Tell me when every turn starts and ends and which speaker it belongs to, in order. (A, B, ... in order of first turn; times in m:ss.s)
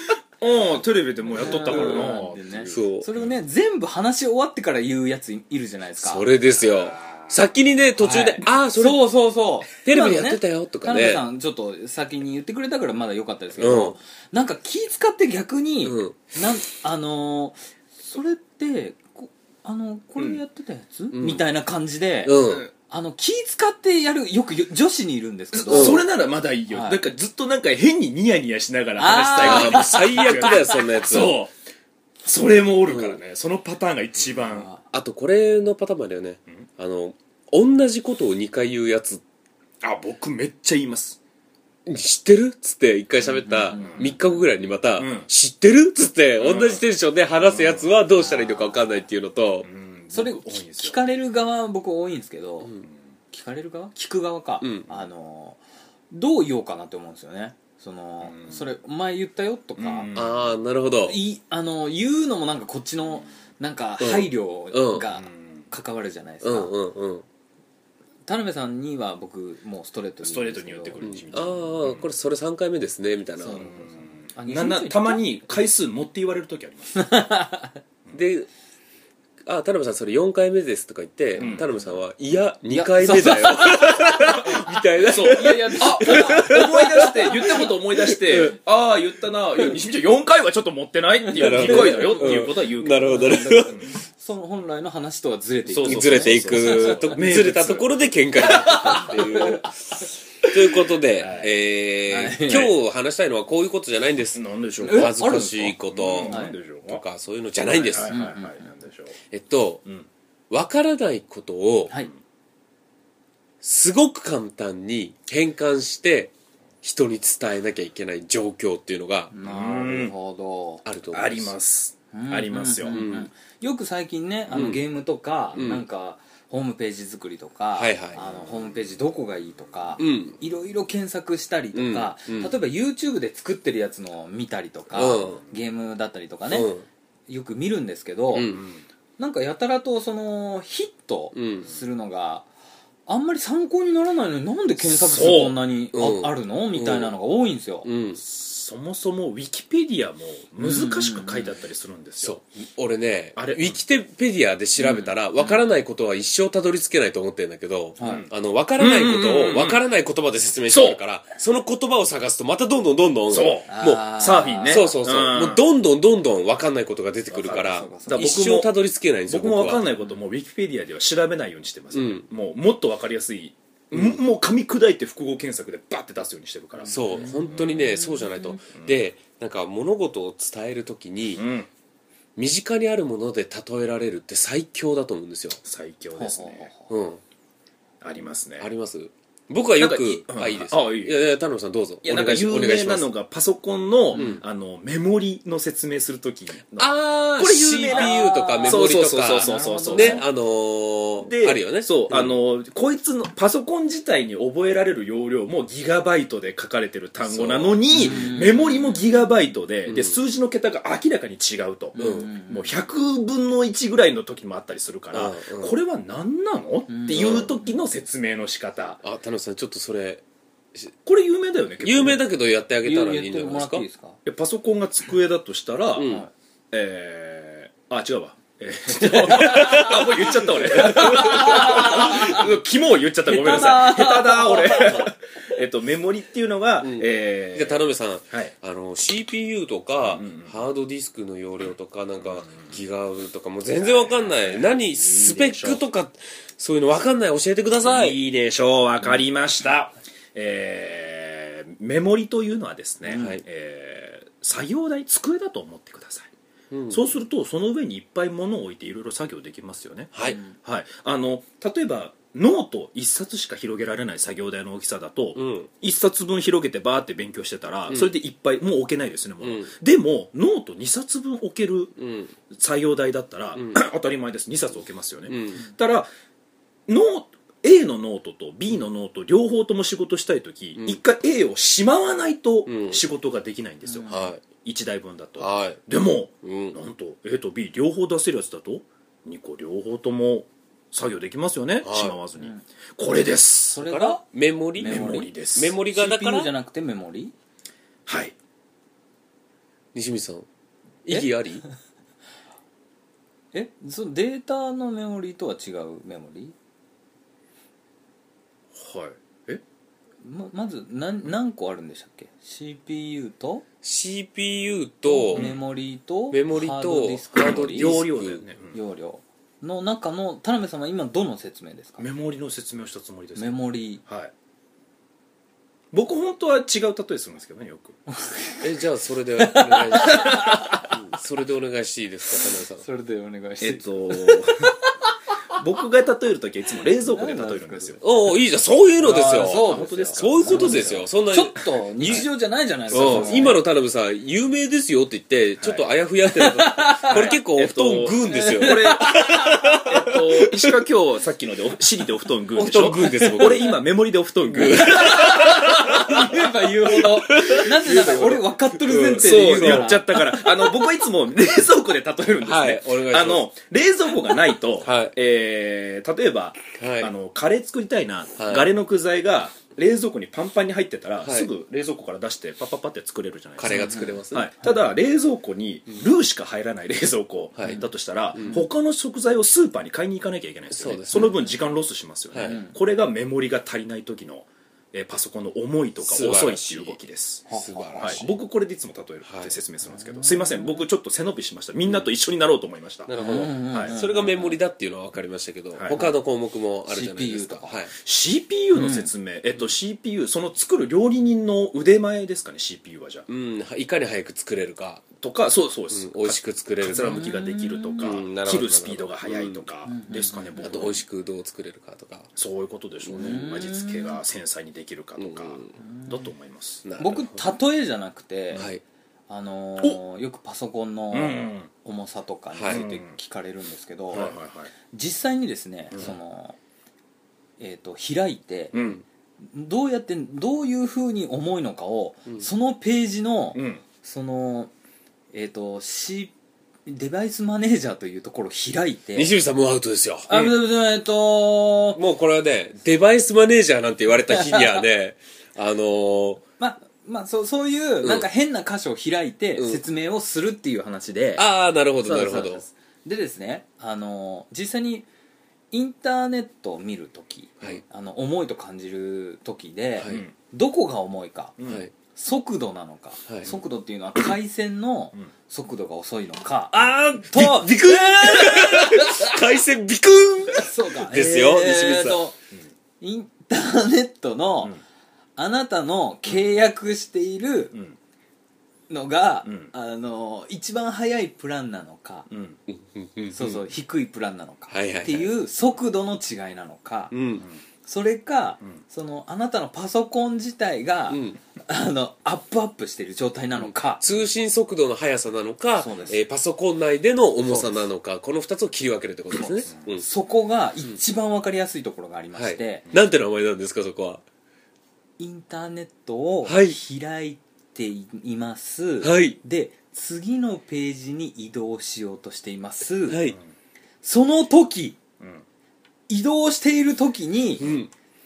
0:00.4-0:03.2 A
0:01.4-0:06.3 B
0:01.6-0:03.1 C
0:06.0-0:09.0 C
0:06.5-0:07.4 A
0:08.0-0:26.1 B
0:09.8-0:11.2 C
0:13.6-0:14.0 C
0:15.8-0:16.2 C
0:21.1-0:21.4 C
0:22.2-0:22.7 C
0:25.5-0:31.5 A
0:25.7-0:26.0 C
0:26.7-0:27.0 B
0:29.0-0:30.7 B
0:29.3-0:31.4 C
0:32.2-0:34.7 A
0:32.8-0:33.2 C
0:34.3-0:34.8 B
0:34.9-0:39.2 C
0:39.8-0:41.2 A
0:41.8-0:49.7 C
0:43.4-0:44.2 B
0:43.5-0:44.1 A
0:45.0-0:45.3 A
0:46.4-0:46.8 A
0:47.4-0:47.9 A
0:48.2-0:49.0 B
0:49.6-0:51.0 A
0:50.1-0:52.7 B
0:53.3-0:55.6 B
0:54.6-0:54.9 C
0:56.1-1:00.1 B
0:58.2-0:58.7 A
0:59.8-1:00.6 A
1:00.1-1:01.2 C
1:01.0-1:06.7 B
1:04.0-1:05.1 C
1:05.2-1:05.7 A
1:06.4-1:07.2 C
1:08.3-1:11.2 B
1:10.2-1:12.1 A
1:11.0-1:13.7 C
1:13.4-1:15.6 B
1:13.6-1:17.1 A
1:16.9-1:17.7 B
1:18.1-1:18.5 C
1:19.4-1:28.6 C
1:21.4-1:21.7 B
1:21.4-1:21.7 A
1:22.7-1:27.5 B
1:25.0-1:33.9 A
1:31.3-1:33.8 C
1:31.4-1:37.3 B
1:35.6-1:38.8 A
1:35.8-1:39.7 C
1:38.4-1:40.5 B
1:40.5-1:48.3 C
1:41.2-1:41.5 A
1:42.1-1:42.7 B
1:42.5-1:42.7 A
1:44.3-1:45.2 A
1:44.8-1:46.5 B
1:45.9-1:47.0 A
1:47.7-1:49.2 A
1:48.1-1:48.6 B
1:49.3-1:49.8 C
1:50.5-1:51.9 C
1:53.6-1:56.3 C
1:56.8-1:59.3 C
1:59.3-2:00.8 B
1:59.4-2:00.1 A
2:00.8-2:01.5 C
2:01.1-2:03.0 A
2:02.1-2:16.7 B
2:02.9-2:03.3 C
2:04.5-2:04.8 C
2:05.5-2:05.8 C
2:07.8-2:08.2 C
2:10.0-2:10.4 C
2:11.7-2:12.5 C
2:14.9-2:15.4 C
2:16.5-2:16.8 C
2:17.3-2:18.6 B
2:18.3-2:18.6 C
2:18.4-2:18.8 A
2:19.2-2:22.5 B
2:21.3-2:21.7 C
2:23.1-2:27.9 B
2:25.0-2:25.6 A
2:25.9-2:27.1 C
2:27.8-2:28.2 C
2:28.2-2:32.4 A
2:30.6-2:31.5 B
2:32.2-2:44.0 C
2:33.4-2:33.8 A
2:34.8-2:35.1 B
2:38.0-2:38.3 B
2:38.0-2:39.8 A
2:40.7-2:41.0 A
2:43.3-2:45.6 A
2:43.7-2:44.9 B
2:44.7-2:49.8 C
2:47.3-2:48.7 A
2:47.6-2:48.3 B
2:49.3-2:57.9 A
2:51.9-2:52.2 C
2:53.9-2:54.2 C
2:56.8-3:01.4 C
2:56.9-2:58.6 B
3:01.4-3:01.7 A
3:02.4-3:05.6 C
3:05.6-3:06.7 A
3:06.2-3:06.9 B
3:06.9-3:07.2 C
3:08.0-3:08.7 A
3:08.6-3:13.1 C
3:09.8-3:11.2 A
3:12.0-3:20.3 A
3:14.1-3:14.4 B
3:14.1-3:14.4 C
3:16.8-3:22.3 C
3:17.9-3:20.2 B
3:21.2-3:39.0 A
3:27.2-3:28.3 C
3:27.9-3:29.0 B
3:29.8-3:30.2 C
3:31.9-3:32.8 B
3:32.0-3:32.3 C
3:35.1-3:35.8 C
3:36.9-3:37.7 B
3:37.1-3:37.5 C
3:39.0-3:40.9 C
3:41.0-3:42.2 A
3:41.8-3:43.8 C
3:42.8-3:44.2 B
3:44.2-3:58.5 A
3:45.9-3:46.2 C
3:46.0-3:46.3 B
3:49.3-3:50.0 C
3:49.5-3:49.8 B
3:50.7-3:52.4 B
3:50.7-3:51.4 C
3:53.2-3:55.1 B
3:56.8-4:08.2 C
4:00.0-4:00.5 A
4:03.8-4:05.8 A
4:07.8-4:16.3 A
4:13.1-4:13.4 C
4:16.7-4:17.0 C
4:16.9-4:31.9 A
4:20.1-4:20.4 C
4:20.2-4:20.5 B
4:25.4-4:25.7 C
4:27.9-4:28.1 C
4:29.4-4:29.7 C
4:32.0-4:32.3 C
4:32.5-4:36.1 A
4:33.5-4:33.8 C
4:35.3-4:35.6 C
4:36.9-4:53.8 A
4:42.7-4:43.0 C
4:43.9-4:44.3 B
4:44.1-4:44.4 C
4:45.4-4:45.8 C
4:46.4-4:46.8 C
4:51.8-4:52.2 C
4:53.7-4:55.3 B
4:53.8-4:56.5 C
4:54.8-4:55.8 A
4:55.8-4:57.3 B
4:58.0-4:58.3 A
4:59.9-5:00.4 C
5:01.0-5:01.6 C
5:03.5-5:06.5 B
5:08.7-5:09.6 A
5:10.2-5:13.6 B
5:13.8-5:15.5 C
5:15.1-5:18.0 B
5:15.3-5:15.6 A
5:16.3-5:18.4 C
5:17.4-5:18.8 A
5:18.7-5:22.0 B
5:22.0-5:24.3 A
5:23.4-5:24.0 B
5:25.9-5:28.0 A
5:28.2-5:28.6 B
5:28.6-5:32.8 C
5:29.4-5:30.9 B
5:30.1-5:30.4 A
5:32.8-5:35.1 B
5:33.6-5:34.7 A
5:35.6-5:38.0 A
5:37.0-5:38.0 B
5:38.0-5:42.3 C
5:39.0-5:43.6 B
5:39.5-5:41.0 A
5:42.9-5:50.7 C
5:42.9-5:43.6 A
5:45.6-5:45.8 A
5:46.3-5:47.4 B
5:47.1-5:49.3 A
5:48.3-5:49.9 B
5:49.8-5:56.5 A
5:52.5-5:53.8 C
5:52.6-5:53.7 B
5:54.5-6:00.4 C
5:54.7-6:00.4 B
5:59.1-6:27.4 A
6:02.4-6:03.5 C
6:04.8-6:05.1 C
6:06.8-6:07.1 C
6:08.4-6:08.7 C
6:11.2-6:11.5 C
6:13.6-6:14.5 C
6:13.7-6:14.2 B
6:17.6-6:17.8 C
6:18.3-6:18.6 C
6:20.7-6:21.3 C
6:22.3-6:22.6 C
6:22.4-6:22.7 B
6:26.0-6:27.0 C
6:27.5-6:28.3 B
6:27.5-6:28.3 C
6:28.0-6:33.1 A
6:29.3-6:29.6 C
6:30.1-6:30.7 B
6:33.0-6:37.9 C
6:33.2-6:34.6 B
6:33.7-6:34.0 A
6:35.7-6:36.0 A
6:36.9-6:37.9 B
6:37.9-6:43.3 A
6:38.7-6:39.1 B
6:43.3-6:45.1 C
6:45.2-6:51.0 A
6:45.9-6:47.3 C
6:46.9-6:48.1 B
6:48.0-6:49.6 C
6:49.9-6:50.5 B
6:50.6-6:52.3 C
6:52.4-6:56.8 A
6:53.1-6:53.5 C
6:53.1-6:54.2 B
6:55.2-6:55.7 C
6:55.8-6:56.3 B
6:56.8-6:57.4 C
6:57.0-6:58.7 B
6:58.6-6:58.8 C
6:59.3-7:04.4 B
7:01.1-7:01.7 A
7:02.5-7:02.8 C
7:02.7-7:03.2 A
7:04.1-7:04.7 A
7:04.9-7:06.6 B
7:07.6-7:08.7 B
7:08.7-7:09.0 A
7:09.5-7:14.7 B
7:13.5-7:13.8 A
7:15.3-7:16.3 B
7:16.8-7:19.3 B
7:19.1-7:20.5 C
7:20.3-7:22.0 B
7:22.0-7:26.4 C
7:24.4-7:24.7 B
7:26.6-7:31.4 B
7:28.0-7:28.3 C
7:29.6-7:29.8 C
7:31.4-7:32.6 C
7:32.0-7:35.1 B
7:35.7-7:41.6 B
7:40.0-7:40.2 C
7:40.0-7:40.3 A
7:41.6-7:41.8 A
7:41.6-7:41.9 C
7:42.1-7:48.8 B
7:43.3-7:43.6 C
7:47.2-7:52.2 C
7:50.5-7:52.3 B
7:53.0-7:54.8 B
7:55.4-7:57.7 B
7:58.9-8:02.3 B
8:02.3-8:02.6 A
8:02.7-8:03.6 C
8:03.3-8:07.1 B
8:04.7-8:05.3 C
8:07.1-8:07.4 C
8:07.8-8:14.1 B
8:11.1-8:11.4 C
8:13.6-8:20.0 C
8:15.8-8:16.2 B
8:19.3-8:22.8 B
8:22.3-8:24.2 C
8:25.2-8:33.3 B
8:26.4-8:26.8 C
8:29.0-8:29.4 C
8:33.1-8:33.4 C
8:34.0-8:35.0 B
8:35.2-8:35.4 A
8:36.1-8:37.6 B
8:37.6-8:37.9 C